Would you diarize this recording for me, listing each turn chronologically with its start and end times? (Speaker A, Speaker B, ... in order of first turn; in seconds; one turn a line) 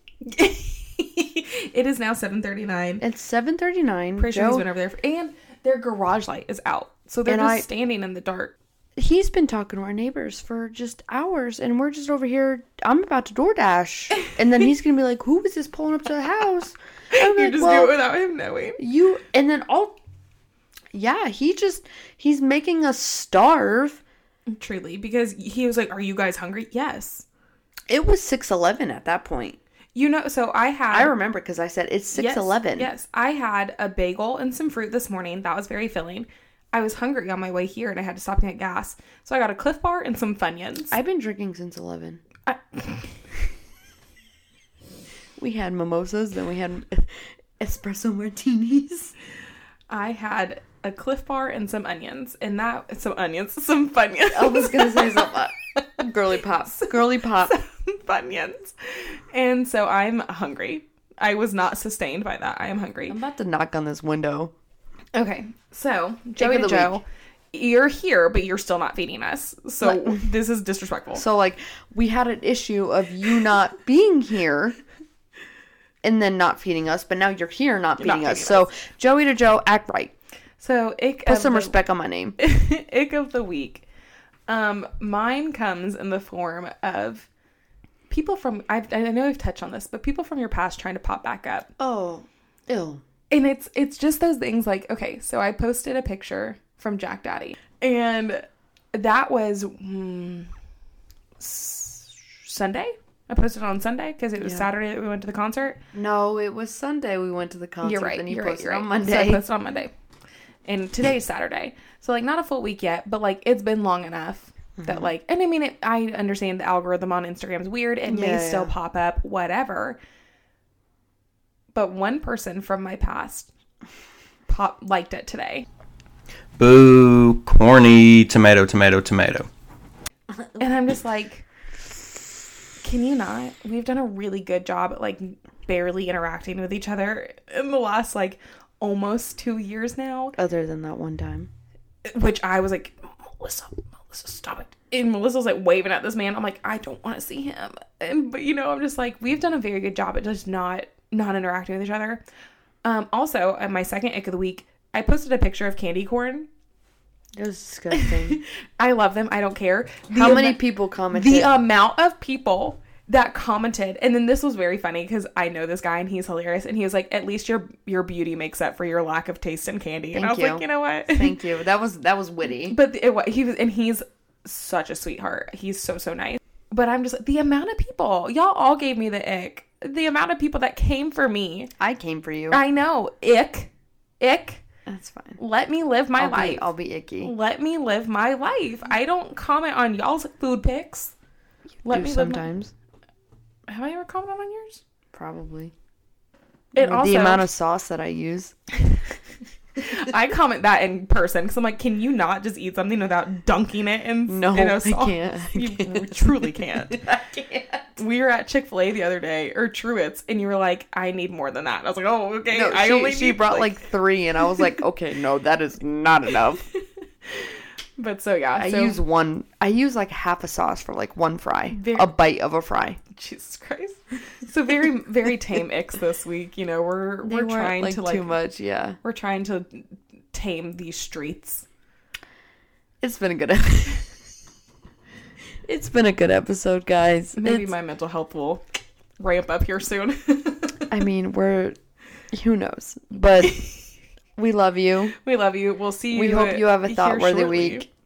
Speaker A: 0.2-3.0
Speaker B: 3.0-4.6
Speaker A: 4.2-8.5
Speaker B: 7.2-7.7
Speaker B: 8.9-17.9
Speaker A: 17.1-18.8
Speaker B: 18.8-19.9
Speaker B: 20.9-24.0
Speaker A: 24.5-27.2
Speaker B: 27.9-29.6
Speaker A: 29.9-31.1
Speaker B: 30.9-32.9
Speaker A: 32.1-41.0
Speaker B: 40.9-42.2
Speaker A: 42.5-43.1
Speaker B: 45.4-49.1
Speaker A: 49.9-56.0
Speaker B: 54.3-57.5
Speaker A: 56.7-63.2
Speaker B: 63.1-64.5
Speaker A: 65.1-71.2
Speaker B: 66.4-67.0
Speaker B: 69.8-70.3
Speaker B: 71.1-74.8
Speaker B: 76.0-80.1
Speaker A: 78.0-78.7
Speaker A: 80.6-81.8
Speaker B: 81.2-82.3
Speaker A: 82.4-83.8
Speaker A: 84.5-87.3
Speaker A: 88.1-91.7
Speaker B: 91.8-93.0
Speaker A: 93.3-100.5
Speaker A: 101.4-105.8
Speaker B: 104.4-104.7
Speaker B: 105.9-109.4
Speaker A: 107.8-109.9
Speaker A: 110.7-120.0
Speaker B: 114.8-115.1
Speaker B: 118.1-118.7
Speaker A: 121.7-123.5
Speaker A: 124.5-125.7
Speaker C: 126.6-129.5
Speaker A: 130.6-131.4
Speaker A: 132.8-140.3
Speaker B: 140.3-141.5
Speaker A: 142.0-152.2
Speaker A: 152.8-156.5
Speaker B: 157.3-158.4
Speaker A: 157.9-160.6
Speaker B: 160.1-161.5
Speaker A: 161.1-171.4
Speaker B: 170.1-172.8
Speaker A: 172.6-181.7
Speaker B: 181.8-182.6
Speaker A: 182.5-184.6
Speaker B: 184.9-185.4
Speaker A: 185.4-186.7
Speaker B: 186.2-187.3
Speaker A: 187.2-191.1
Speaker A: 191.8-192.5
Speaker B: 191.8-192.7
Speaker A: 193.7-194.8
Speaker B: 195.1-195.7
Speaker A: 196.7-197.4
Speaker B: 196.7-198.5
Speaker A: 199.8-207.0
Speaker B: 204.3-207.9
Speaker A: 208.0-213.8
Speaker B: 212.5-216.7
Speaker A: 217.2-219.0
Speaker B: 218.6-223.0
Speaker A: 221.7-222.1
Speaker A: 223.1-228.3
Speaker B: 227.2-229.0
Speaker A: 229.0-231.7
Speaker B: 233.0-234.1
Speaker B: 235.6-237.7
Speaker A: 237.3-238.6
Speaker A: 239.2-240.8
Speaker B: 240.9-241.8
Speaker B: 242.3-243.7
Speaker A: 243.4-243.8
Speaker B: 244.3-245.1
Speaker A: 245.2-247.9
Speaker B: 246.1-247.8